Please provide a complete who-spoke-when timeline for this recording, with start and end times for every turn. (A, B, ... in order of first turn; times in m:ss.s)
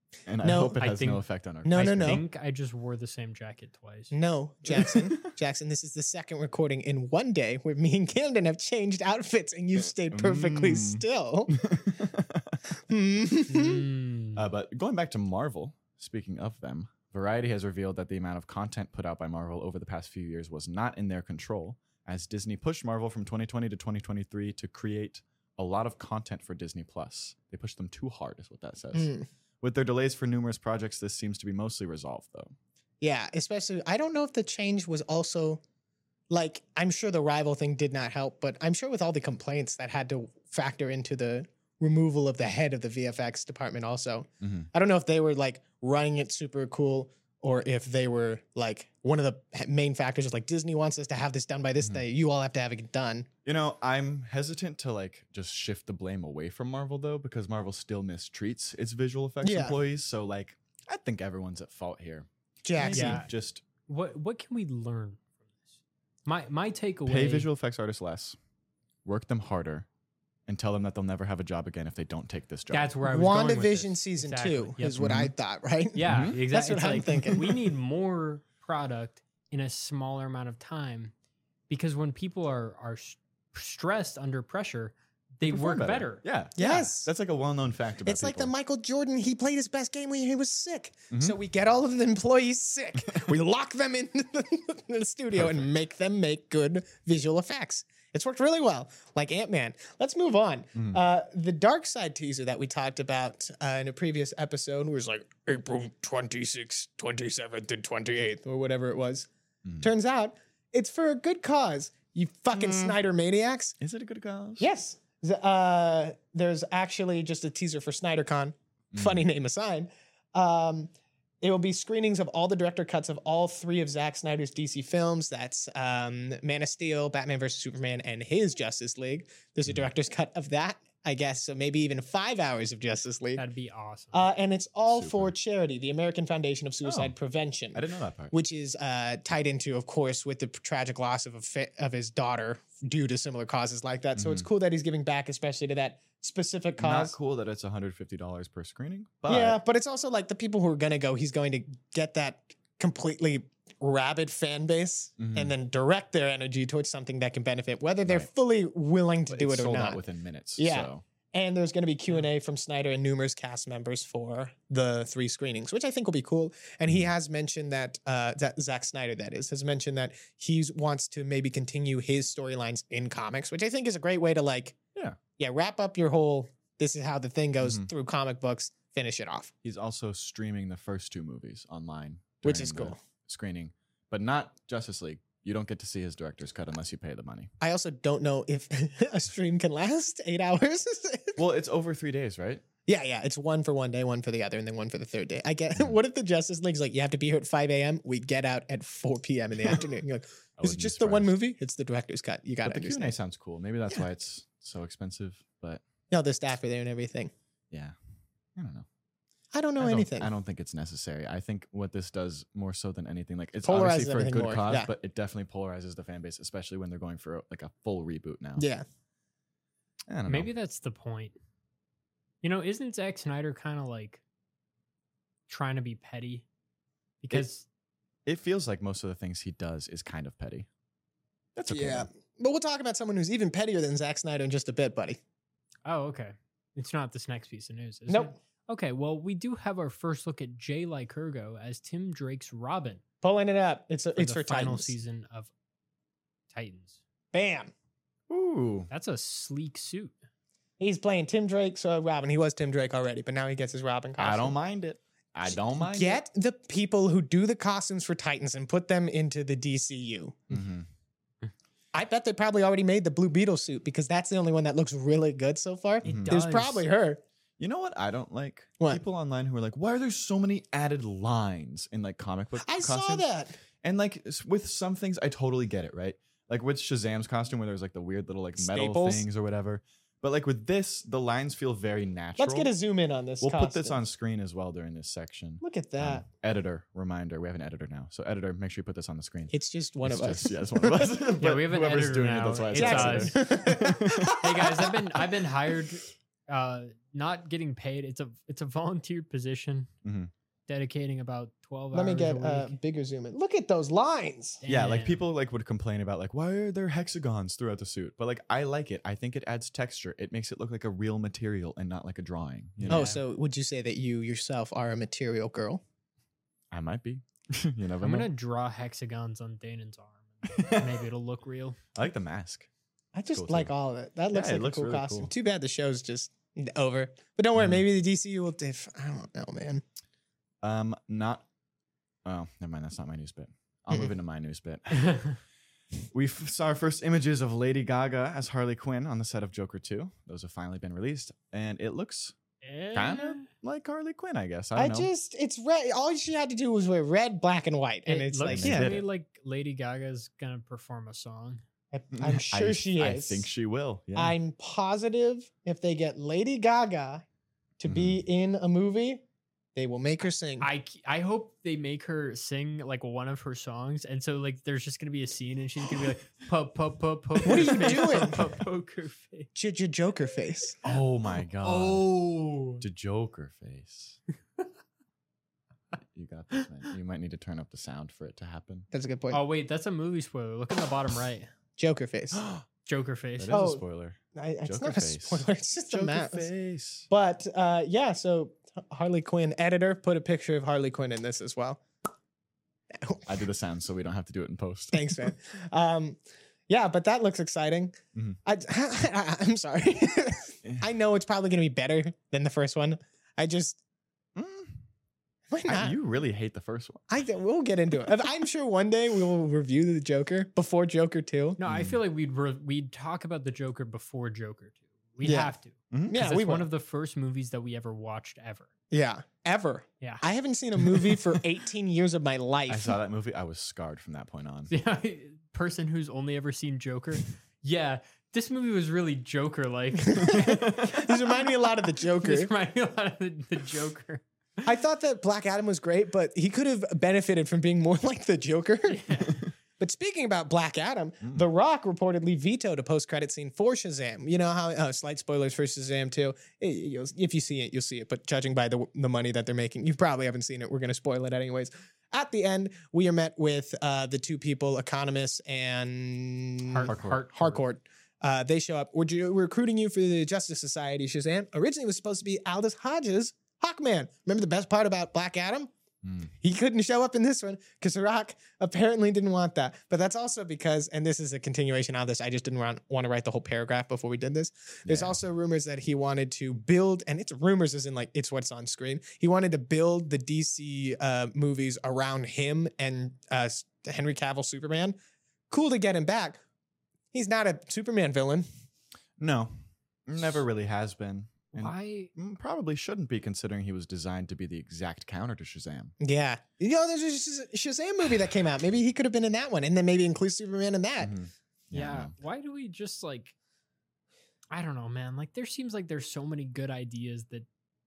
0:00.3-0:02.2 A
0:00.4-0:00.8 B
0:00.8-0:04.1 C
0:01.6-0:02.2 B
0:04.1-0:11.6 B
0:04.7-0:05.2 A
0:10.1-0:12.6 A
0:12.7-0:13.8 B
0:13.5-0:14.5 C
0:14.4-0:32.5 A
0:28.9-0:29.3 B
0:33.0-0:35.6 B
0:36.3-0:53.3 B
0:44.4-0:44.7 A
0:53.4-1:02.3 A
0:59.4-0:59.8 B
1:02.6-1:03.2 B
1:02.8-1:03.6 A
1:02.8-1:03.3 C
1:03.9-1:05.3 C
1:06.3-1:07.5 C
1:07.1-1:08.4 A
1:09.0-1:09.9 A
1:10.5-1:13.0 A
1:12.7-1:15.0 C
1:13.1-1:17.7 B
1:15.0-1:15.3 A
1:16.0-1:21.1 C
1:16.0-1:16.4 A
1:21.7-1:26.2 C
1:25.4-1:28.5 A
1:26.6-1:27.1 B
1:28.0-1:49.3 B
1:31.1-1:31.4 A
1:33.0-1:33.4 A
1:35.3-1:35.7 A
1:40.8-1:41.0 A
1:49.8-1:53.8 B
1:52.5-1:53.0 A
1:53.8-1:54.7 A
1:54.6-2:00.9 B
1:58.9-1:59.2 A
2:01.4-2:13.4 B
2:13.4-2:14.2 C
2:14.1-2:27.2 B
2:14.9-2:15.3 A
2:16.8-2:17.2 A
2:17.7-2:18.3 A
2:24.2-2:24.5 A
2:26.8-2:29.6 A
2:29.3-2:40.0 B
2:35.2-2:35.5 A
2:39.3-2:41.0 A
2:40.6-2:54.8 B
2:55.4-2:59.5 B
2:57.6-2:57.9 A
2:59.6-3:07.5 A
3:02.4-3:03.0 B
3:07.6-3:11.4 B
3:11.4-3:12.6 A
3:12.9-3:23.2 B
3:20.6-3:21.4 A
3:22.6-3:25.8 A
3:26.1-3:27.3 B
3:28.6-3:28.9 A
3:29.5-3:30.3 B
3:29.8-3:38.6 A
3:33.6-3:34.9 B
3:38.6-3:38.8 B
3:40.1-3:40.5 A
3:40.3-3:41.4 C
3:42.4-3:44.2 C
3:45.5-3:46.4 C
3:47.2-3:47.6 C
3:48.3-3:50.7 A
3:51.6-3:52.1 A
3:51.7-3:55.2 B
3:55.9-4:03.0 C
3:58.1-3:58.3 B
4:03.2-4:04.9 B
4:04.2-4:05.5 C
4:06.5-4:07.0 C
4:07.3-4:07.7 B
4:08.3-4:08.9 A
4:08.9-4:10.2 C
4:10.8-4:14.6 B
4:14.2-4:16.2 A
4:15.8-4:20.6 B
4:20.5-4:20.9 A
4:21.9-4:27.2 B
4:26.0-4:26.4 A
4:26.0-4:26.9 C
4:27.6-4:33.2 A
4:32.6-4:33.6 B
4:33.8-4:42.7 A
4:38.6-4:39.3 B
4:42.4-4:44.0 B
4:43.4-4:54.7 A
4:45.6-4:46.2 B
4:49.5-4:51.0 B
4:51.4-4:53.7 C
4:52.7-4:54.9 B
4:54.2-4:59.9 C
5:00.0-5:00.3 A
5:00.7-5:02.8 C
5:01.9-5:04.6 B
5:04.6-5:05.2 C
5:04.7-5:13.2 A
5:12.8-5:13.2 C
5:12.9-5:15.8 B
5:16.7-5:18.3 A
5:18.0-5:21.8 C
5:20.5-5:21.0 A
5:22.0-5:22.7 A
5:23.2-5:29.8 B
5:23.3-5:23.7 A
5:24.3-5:25.3 A
5:27.6-5:27.8 A
5:30.6-5:31.5 A
5:32.2-5:35.3 A
5:35.0-5:35.4 C
5:36.1-5:42.4 A
5:42.6-5:43.5 C
5:42.9-5:45.1 A
5:44.8-5:49.0 B
5:48.1-5:51.6 C
5:48.5-5:49.1 A
5:51.9-5:53.5 B
5:52.1-5:54.4 A
5:54.2-5:57.2 B
5:57.8-5:59.2 B
5:57.9-5:58.2 A
5:59.8-6:00.7 B
6:00.6-6:09.5 C
6:07.4-6:08.4 B
6:09.6-6:10.8 B
6:10.8-6:12.1 A
6:11.6-6:12.8 C
6:12.8-6:14.2 A
6:16.1-6:18.9 A
6:18.9-6:19.4 B
6:19.3-6:21.5 C
6:21.8-6:22.4 B
6:22.3-6:22.6 A
6:22.9-6:23.6 C
6:23.4-6:27.1 A
6:23.5-6:23.8 B
6:24.3-6:26.5 B
6:27.1-6:31.8 B
6:33.0-6:33.3 B
6:33.3-6:35.3 A
6:34.9-6:43.8 B
6:44.4-6:44.8 A
6:45.5-6:46.0 B
6:45.7-6:47.1 A
6:47.1-6:51.6 B
6:51.6-6:58.7 C
6:51.6-6:52.0 A
6:55.2-6:55.5 B
6:55.9-6:56.2 A
6:56.1-6:56.7 B
6:58.9-7:03.0 B
7:02.7-7:04.7 A
7:04.7-7:10.6 C
7:10.1-7:12.5 B
7:10.2-7:11.1 A
7:12.0-7:14.6 C
7:14.6-7:45.7 B
7:18.9-7:19.4 C
7:36.7-7:37.6 C
7:36.8-7:37.3 A
7:46.0-7:46.3 A
7:46.4-8:05.0 B
7:54.9-7:55.2 A
8:05.5-8:06.4 B
8:07.1-8:08.5 B
8:09.2-8:15.9 A
8:11.5-8:12.1 C
8:16.0-8:21.2 B
8:21.0-8:22.1 A
8:21.7-8:23.4 C
8:24.5-8:27.5 C